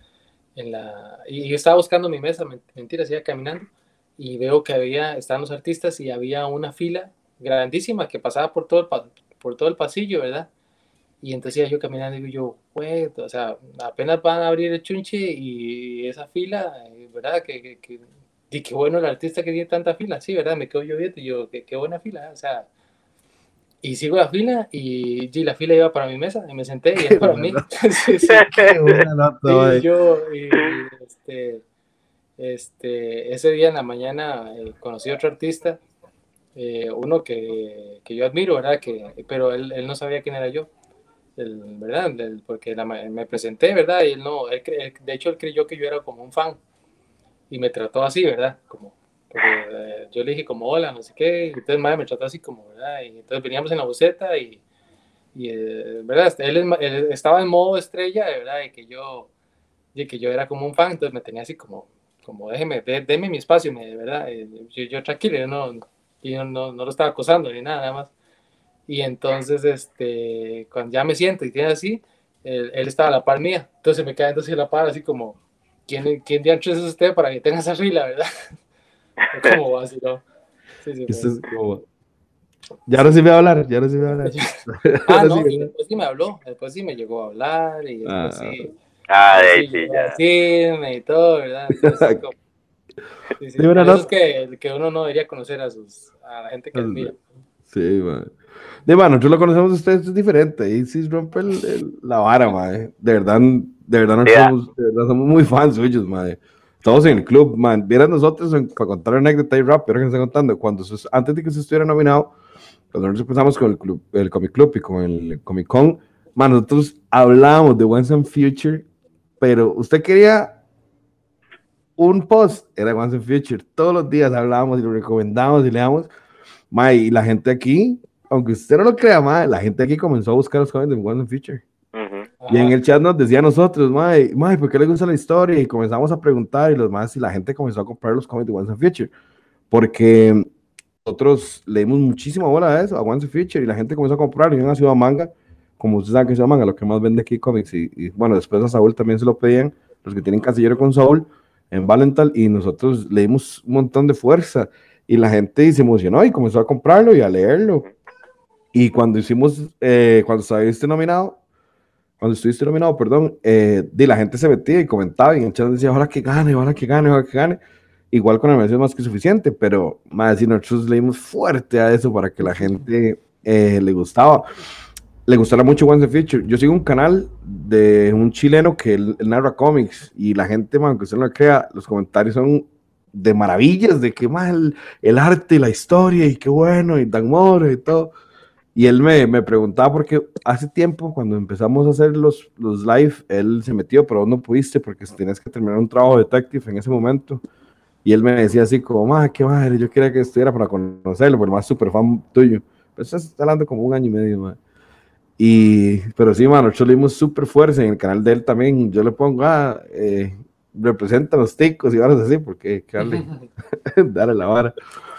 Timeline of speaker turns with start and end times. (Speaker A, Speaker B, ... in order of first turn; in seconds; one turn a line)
Speaker A: 0.6-10.5
Speaker A: 11.2-22.7
Speaker A: 23.8-28.6
Speaker B: 26.9-27.6
Speaker B: 28.3-29.9
Speaker C: 28.4-28.9
Speaker A: 29.4-31.6
Speaker A: 32.4-35.8
Speaker A: 36.5-40.7
Speaker A: 41.4-46.6
Speaker A: 47.5-54.6
Speaker A: 55.3-59.3
Speaker A: 59.9-68.1
Speaker A: 68.9-78.5
Speaker A: 79.3-80.2
Speaker A: 80.8-81.4
Speaker B: 81.1-81.8
Speaker B: 82.9-85.7
Speaker A: 84.3-88.7
Speaker B: 88.0-88.6
Speaker C: 89.1-90.1
Speaker A: 89.3-92.3
Speaker B: 91.8-92.2
Speaker A: 93.4-97.2
Speaker B: 93.6-94.1
Speaker B: 96.7-97.1
Speaker B: 97.7-112.3
Speaker C: 104.2-104.5
Speaker B: 112.9-118.8
Speaker B: 119.4-120.5
Speaker B: 122.0-126.1
Speaker B: 126.7-131.6
Speaker C: 131.9-132.3
Speaker A: 132.4-132.8
Speaker B: 132.5-139.1
Speaker B: 139.7-140.4
Speaker B: 141.0-157.8
Speaker B: 158.7-161.4
Speaker B: 162.2-167.6
Speaker B: 168.1-174.4
Speaker B: 175.2-188.1
Speaker B: 188.8-197.4
Speaker B: 198.0-204.6
Speaker B: 205.4-214.7
Speaker A: 213.0-213.5